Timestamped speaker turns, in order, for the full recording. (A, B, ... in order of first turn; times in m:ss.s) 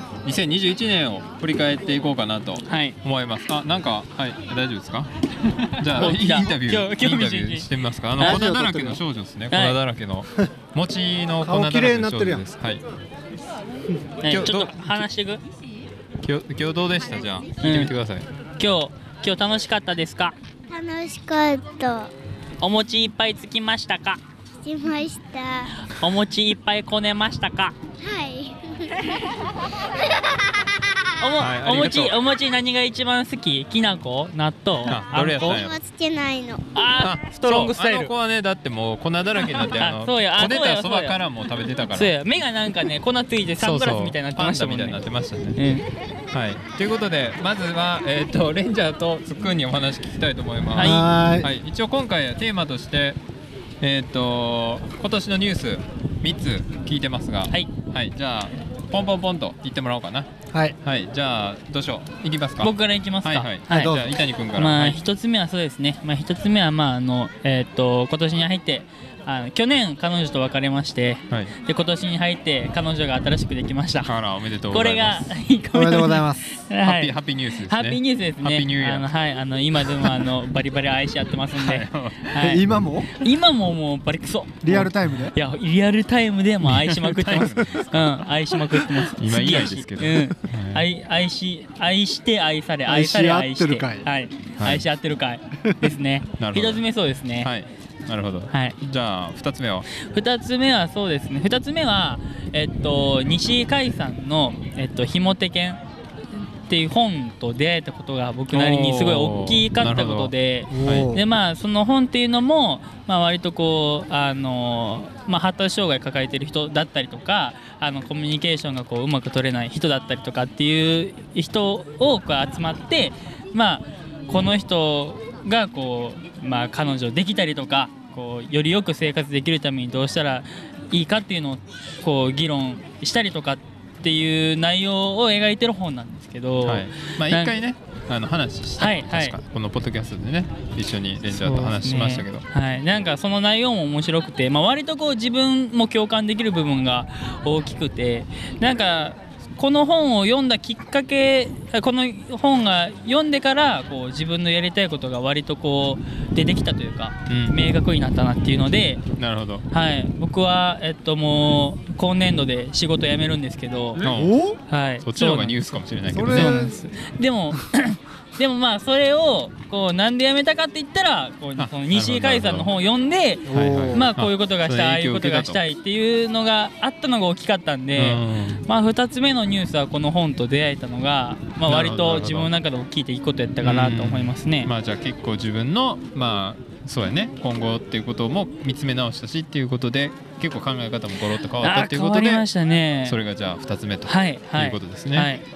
0:00.2-0:05.1 A
0:02.6-0:03.0 B
0:05.8-0:12.8 A
0:05.9-0:07.7 B
0:08.2-0:09.0 C
0:09.5-0:09.8 B
0:11.4-0:12.4 C
0:14.2-0:15.4 B
0:14.3-0:15.0 A
0:16.2-0:18.2 A
0:17.6-0:17.9 B
0:18.6-0:20.4 B
0:20.7-0:22.1 D
0:22.6-0:24.2 B
0:24.6-0:25.7 D
0:25.8-0:27.7 B
0:28.0-0:29.3 D
0:31.2-0:35.6 B
0:31.4-0:32.1 A
0:34.9-0:35.8 A
0:35.4-0:36.6 D
0:36.7-0:38.1 B
0:37.0-0:42.1 A
0:39.7-0:41.2 B
0:41.9-0:45.0 B
0:43.6-0:45.6 A
0:45.6-0:45.8 B
0:46.3-0:53.2 A
0:50.7-0:51.0 B
0:50.8-0:51.5 C
0:53.8-1:00.3 A
1:00.8-1:05.0 A
1:02.6-1:03.9 B
1:03.7-1:04.1 C
1:04.6-1:14.1 B
1:14.0-1:15.2 A
1:14.7-1:22.6 B
1:15.7-1:16.4 C
1:16.8-1:19.1 A
1:21.6-1:22.8 A
1:22.4-1:23.2 C
1:23.2-1:37.5 B
1:24.6-1:25.3 C
1:26.6-1:28.3 A
1:29.0-1:30.8 A
1:32.9-1:34.1 C
1:34.6-1:34.8 A
1:36.4-1:36.8 A
1:37.4-1:39.9 A
1:38.5-1:38.8 B
1:39.9-1:45.8 B
1:46.7-2:17.6 B
1:48.5-1:51.1 A
1:50.7-1:51.2 C
2:16.6-2:22.4 A
2:18.8-2:19.4 B
2:21.3-2:39.0 B
2:37.3-2:37.6 A
2:39.2-2:39.6 A
2:39.7-2:44.0 B
2:44.0-2:44.6 C
2:44.0-2:44.4 A
2:44.7-2:45.6 B
2:45.0-2:46.7 A
2:46.1-2:46.7 C
2:46.2-3:04.7 B
2:51.6-2:52.7 A
2:53.4-2:54.1 C
2:53.5-2:55.6 A
2:57.9-2:58.6 A
3:01.7-3:02.5 A
3:03.6-3:12.4 A
3:11.6-3:13.2 B
3:13.0-3:15.3 A
3:14.0-3:15.4 B